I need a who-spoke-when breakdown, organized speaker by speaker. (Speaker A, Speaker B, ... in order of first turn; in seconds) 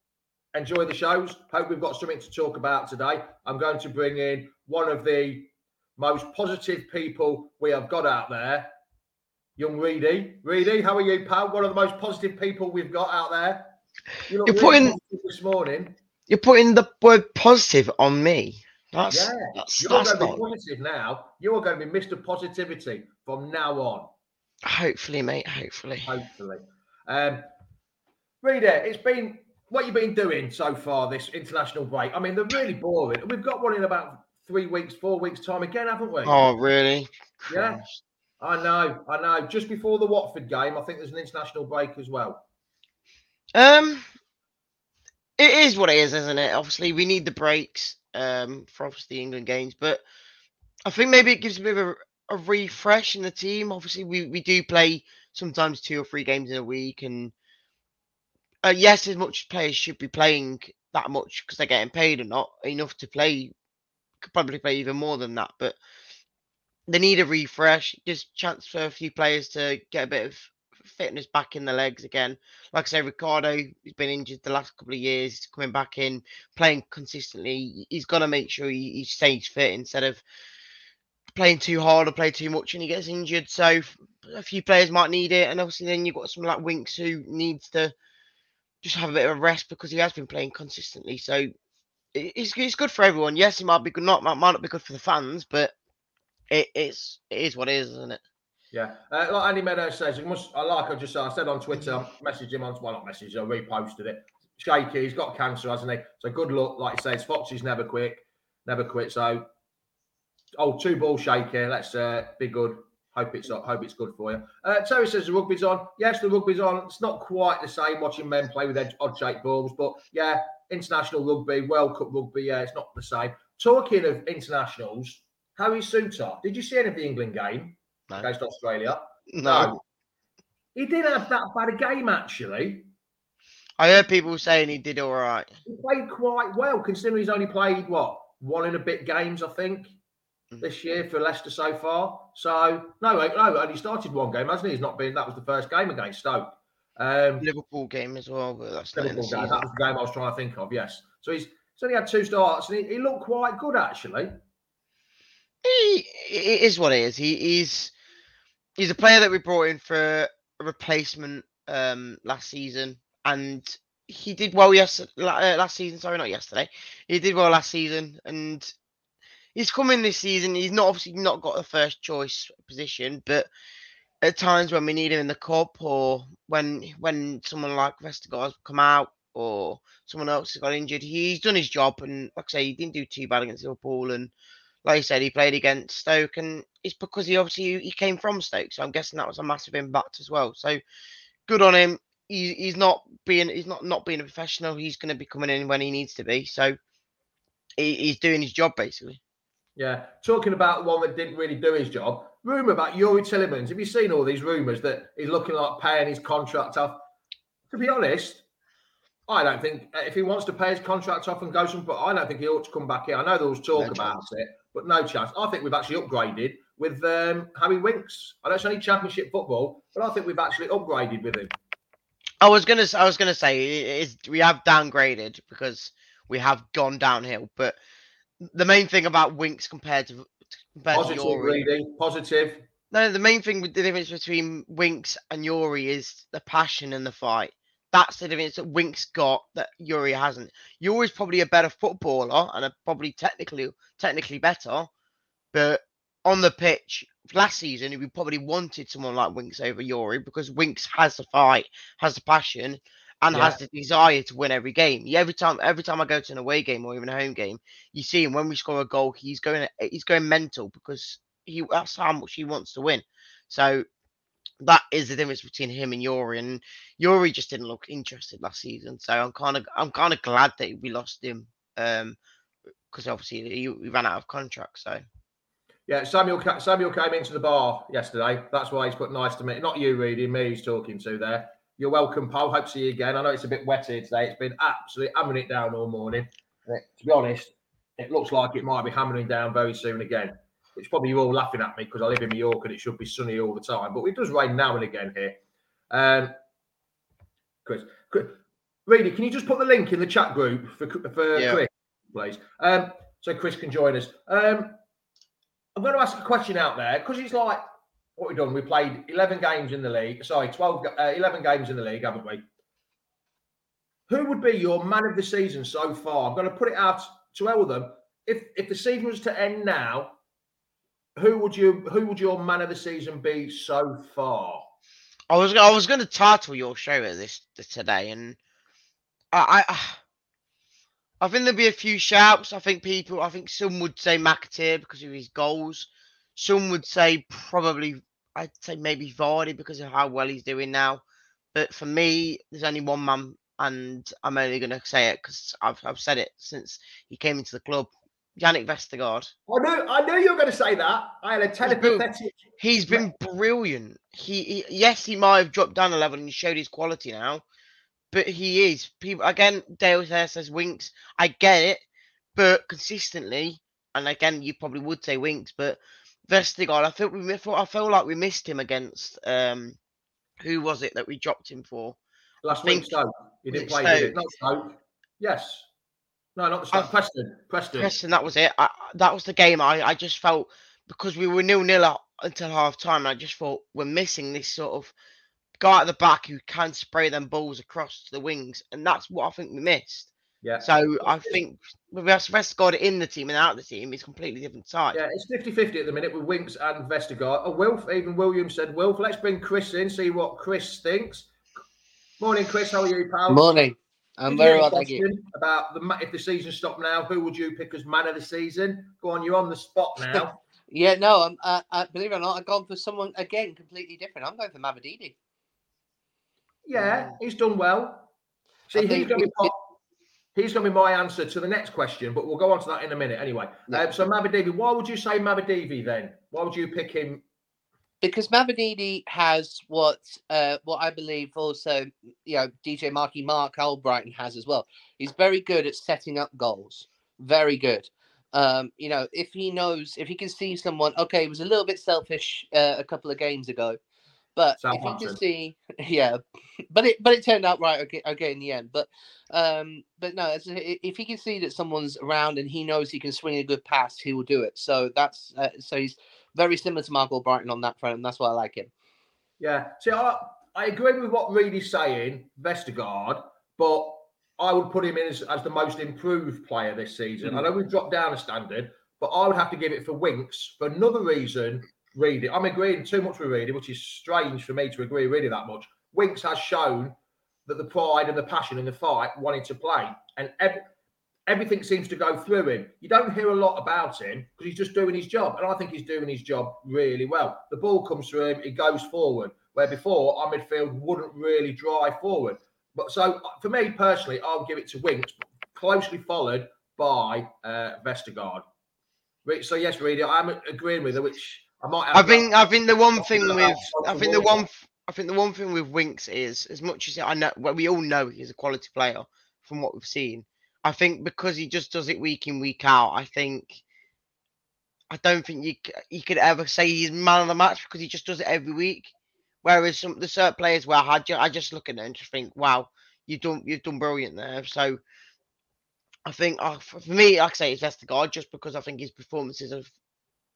Speaker A: 0.5-8.7, 9.6-13.8, 14.3-16.0, 19.1-24.1, 26.1-27.4, 28.4-36.5, 37.5-37.8, 38.4-42.4, 98.7-109.5, 110.6-129.8, 130.8-132.9, 135.7-139.9, 140.6-147.5, 148.9-154.4, 199.8-207.0, 207.7-208.4, 209.3-221.5, 230.9-232.6, 253.3-253.6, 275.9-295.4, 295.9-296.3, 297.6-304.8, 305.8-307.6, 308.2-312.4, 314.1-320.2, 321.2-324.7, 349.5-353.1, 372.4-375.7, 376.4-377.9, 390.4-391.4, 394.9-401.3, 402.2-403.6, 404.3-410.4, 416.7-418.1, 418.7-419.7, 420.4-427.2, 444.6-445.2, 459.4-480.7, 481.3-498.4, 499.2-502.3, 502.9-504.5
Speaker B: 14.5-15.0, 16.3-20.4, 24.6-26.1, 36.2-38.0, 43.5-44.1, 45.4-50.0, 50.9-57.3, 58.6-63.5, 64.2-65.8, 66.9-80.2, 81.3-87.9, 88.8-91.5, 92.1-95.7, 96.5-98.2, 129.3-129.8, 133.8-135.5, 147.4-149.7, 155.6-157.9, 158.8-168.7, 169.6-173.5, 174.2-184.3, 184.8-190.8, 191.5-196.8, 197.8-199.2, 213.7-214.2, 222.4-227.8, 228.4-231.7, 232.9-244.9, 245.5-263.9, 264.6-272.2, 272.9-275.0, 301.3-301.6, 325.3-328.4, 329.3-330.0, 331.2-349.3, 351.6-352.1, 352.6-357.4, 358.1-361.8, 362.4-369.8, 370.4-372.0, 372.5-373.0, 373.5-374.2, 377.8-384.9, 385.6-395.0, 501.9-513.6, 514.9-518.9, 519.4-524.8, 526.0-529.7
Speaker C: 403.3-405.0, 410.1-415.1, 418.7-419.5, 428.0-443.8, 444.4-458.7